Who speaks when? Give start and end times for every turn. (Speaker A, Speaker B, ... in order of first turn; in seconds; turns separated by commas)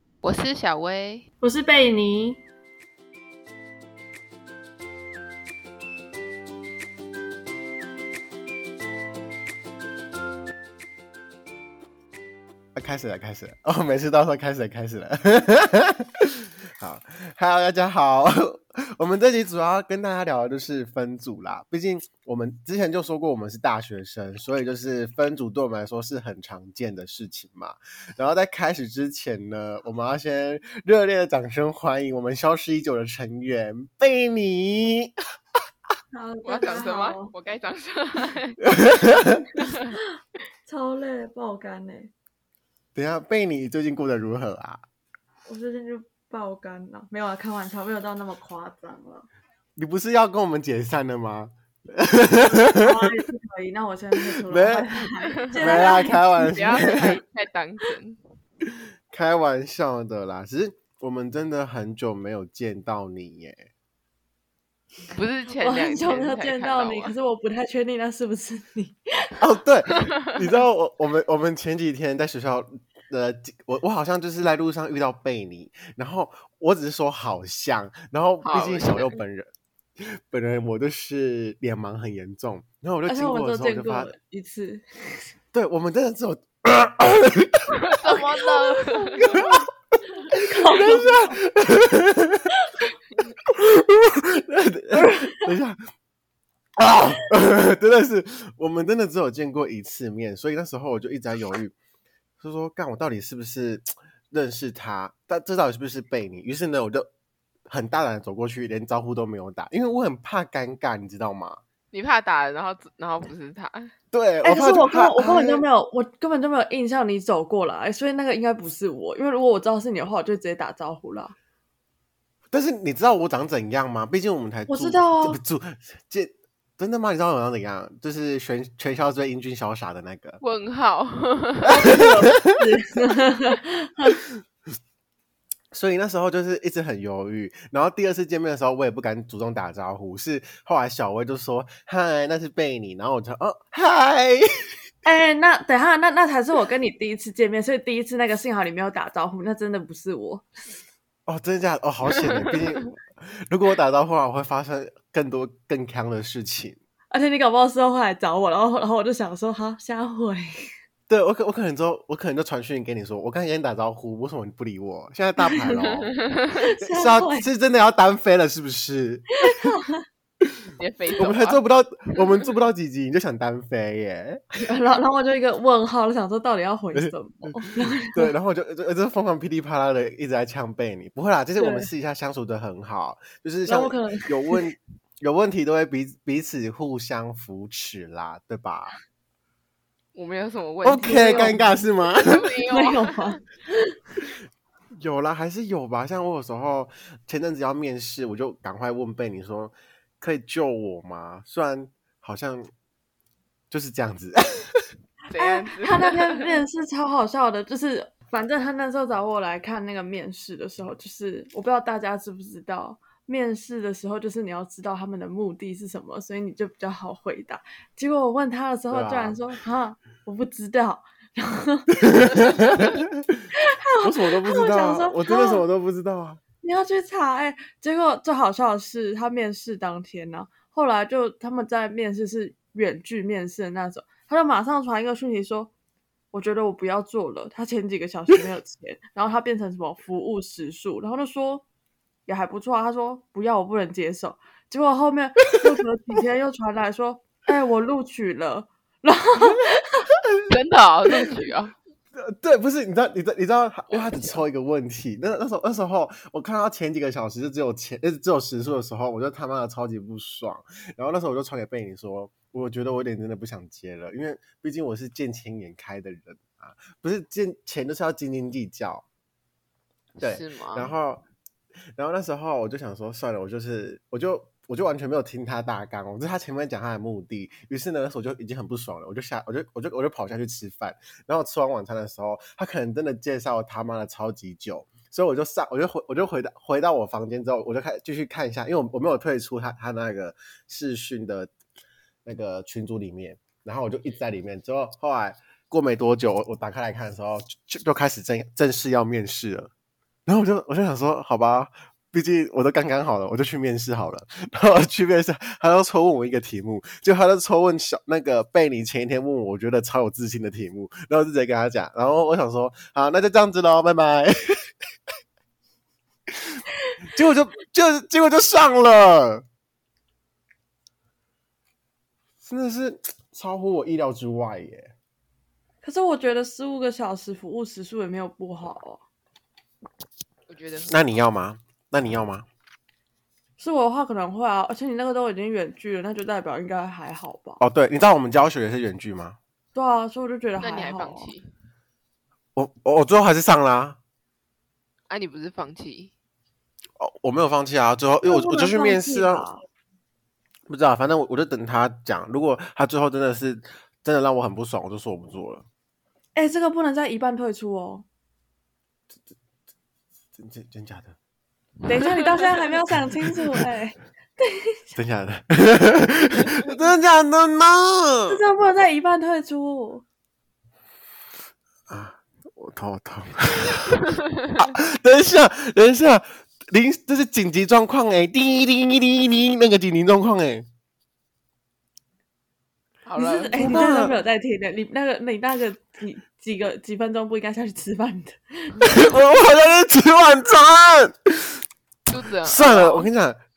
Speaker A: 0.2-1.2, Speaker B: 1.4-2.4, Speaker C: 12.7-35.1, Speaker B: 36.1-37.3, Speaker A: 36.4-38.6, Speaker C: 38.6-39.5, Speaker B: 40.6-42.1, Speaker C: 42.9-44.8, Speaker B: 45.5-49.3, Speaker C: 49.8-53.1, Speaker B: 52.7-56.2, Speaker C: 54.2-57.2, Speaker A: 55.2-58.2, Speaker C: 59.1-63.7, Speaker A: 65.1-67.1, Speaker B: 65.5-69.4, Speaker C: 69.4-84.1, Speaker A: 78.4-79.2, Speaker B: 83.0-85.3, Speaker C: 85.5-88.2, Speaker A: 87.8-89.4, Speaker B: 88.7-89.5, Speaker C: 89.2-89.7, Speaker C: 90.3-92.5, Speaker B: 90.3-91.4, Speaker C: 93.4-95.8, Speaker B: 94.9-95.5, Speaker C: 96.8-101.7, Speaker C: 102.4-107.1, Speaker C: 107.7-111.6, Speaker A: 111.9-113.9, Speaker C: 114.1-115.6, Speaker B: 114.4-121.3, Speaker C: 122.5-130.4, Speaker B: 124.7-125.4, Speaker A: 130.4-131.8, Speaker C: 131.6-132.6, Speaker B: 131.7-134.2, Speaker C: 135.7-144.4, Speaker B: 145.0-150.4, Speaker C: 151.3-156.8, Speaker A: 152.2-152.6, Speaker B: 157.1-160.5, Speaker C: 161.1-166.1, Speaker A: 166.2-166.5, Speaker B: 166.6-167.5, Speaker C: 166.8-169.4, Speaker B: 169.4-170.0, Speaker A: 170.8-171.6, Speaker C: 171.2-174.4, Speaker A: 172.1-172.4, Speaker B: 174.6-178.3, Speaker C: 176.9-188.9, Speaker B: 181.6-181.9, Speaker B: 183.7-184.7, Speaker A: 190.1-193.4, Speaker C: 190.8-192.5, Speaker B: 191.3-191.7, Speaker B: 192.7-194.0, Speaker C: 194.9-202.7, Speaker C: 203.7-204.8, Speaker A: 205.3-206.5, Speaker B: 205.4-222.9, Speaker C: 218.9-219.4, Speaker C: 221.9-223.5, Speaker B: 223.7-225.6, Speaker C: 224.0-226.4, Speaker B: 226.6-235.7, Speaker B: 236.3-241.6, Speaker B: 242.2-249.8, Speaker A: 250.5-251.7, Speaker C: 252.1-269.0, Speaker A: 253.9-254.4, Speaker A: 270.2-270.9, Speaker C: 270.2-271.2, Speaker C: 271.9-291.5, Speaker C: 292.2-299.7, Speaker C: 300.2-314.6, Speaker C: 317.1-319.4, Speaker C: 322.4-324.9, Speaker B: 325.8-329.0, Speaker A: 330.5-331.1, Speaker C: 330.9-332.4, Speaker B: 333.6-337.6, Speaker C: 337.6-339.4, Speaker B: 339.7-341.3, Speaker A: 340.6-341.5, Speaker C: 342.5-344.0, Speaker A: 345.1-346.1, Speaker C: 347.0-349.4, Speaker B: 348.2-349.6, Speaker C: 350.7-355.6, Speaker B: 356.3-358.1, Speaker C: 360.4-361.1, Speaker B: 361.9-365.0, Speaker A: 361.9-362.4, Speaker C: 364.9-368.4, Speaker B: 368.3-370.0, Speaker C: 371.9-380.7, Speaker A: 383.1-383.5, Speaker B: 383.2-389.1, Speaker C: 383.5-384.1, Speaker C: 388.8-391.6, Speaker A: 392.1-393.1, Speaker C: 392.4-393.4